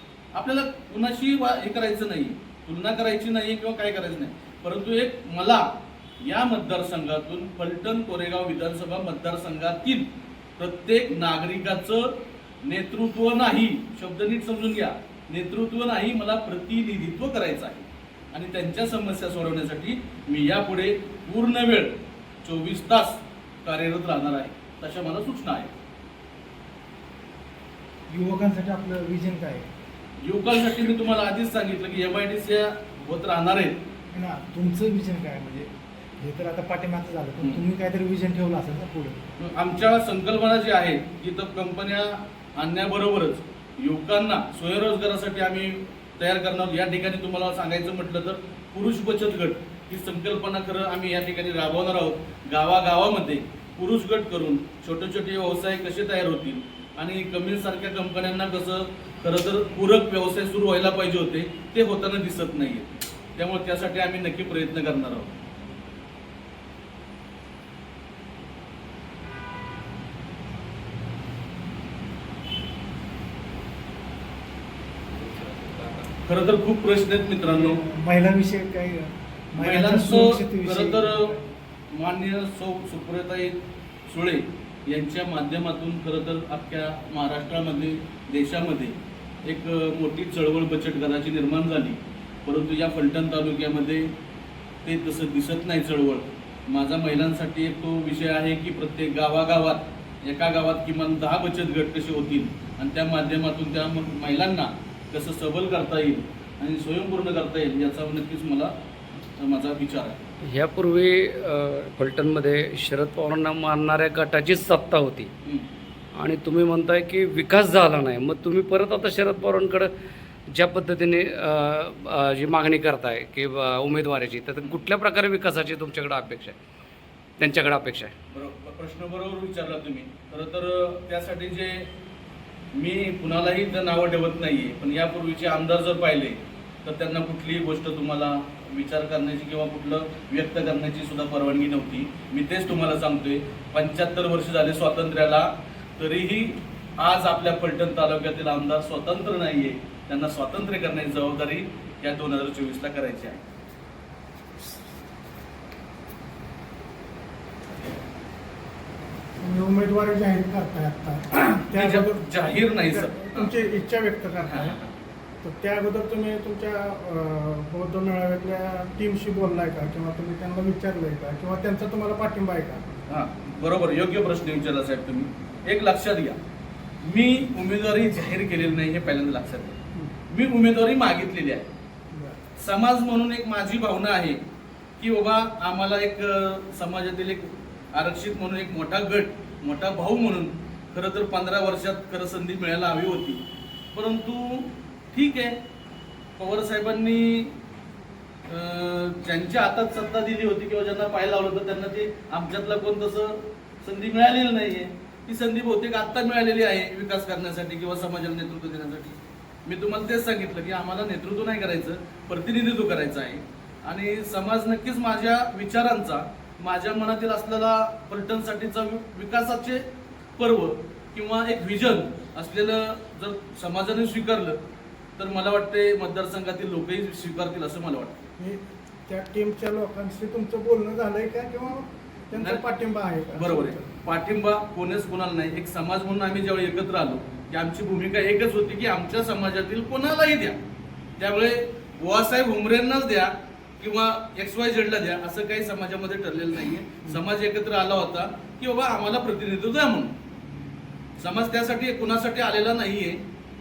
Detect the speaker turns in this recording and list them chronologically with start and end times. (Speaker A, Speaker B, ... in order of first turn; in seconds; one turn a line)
Speaker A: 0.3-25.7
Speaker B: 28.1-29.7
Speaker A: 30.2-33.8
Speaker B: 34.1-39.3
Speaker A: 37.4-37.6
Speaker A: 39.4-65.4
Speaker A: 76.2-77.8
Speaker B: 77.4-81.5
Speaker A: 79.5-81.4
Speaker A: 81.9-83.6
Speaker A: 84.1-94.1
Speaker A: 94.8-108.7
Speaker A: 109.4-110.2
Speaker C: 110.4-115.3
Speaker C: 116.2-119.9
Speaker C: 120.5-126.5
Speaker C: 127.4-128.1
Speaker A: 128.3-131.9
Speaker A: 132.7-153.4
Speaker D: 159.4-164.8
Speaker A: 161.4-163.5
Speaker A: 164.4-164.9
Speaker D: 165.4-172.8
Speaker A: 173.1-176.4
Speaker A: 177.0-179.8
Speaker A: 180.3-181.7
Speaker A: 182.6-184.4
Speaker A: 185.0-193.4
Speaker A: 193.9-195.6
Speaker A: 196.4-197.5
Speaker A: 198.5-219.8
Speaker A: 220.4-224.6
Speaker A: 225.2-228.2
Speaker D: 228.4-233.8
Speaker A: 232.3-232.6
Speaker A: 233.3-240.6
Speaker A: 241.2-250.1
Speaker A: 251.2-253.2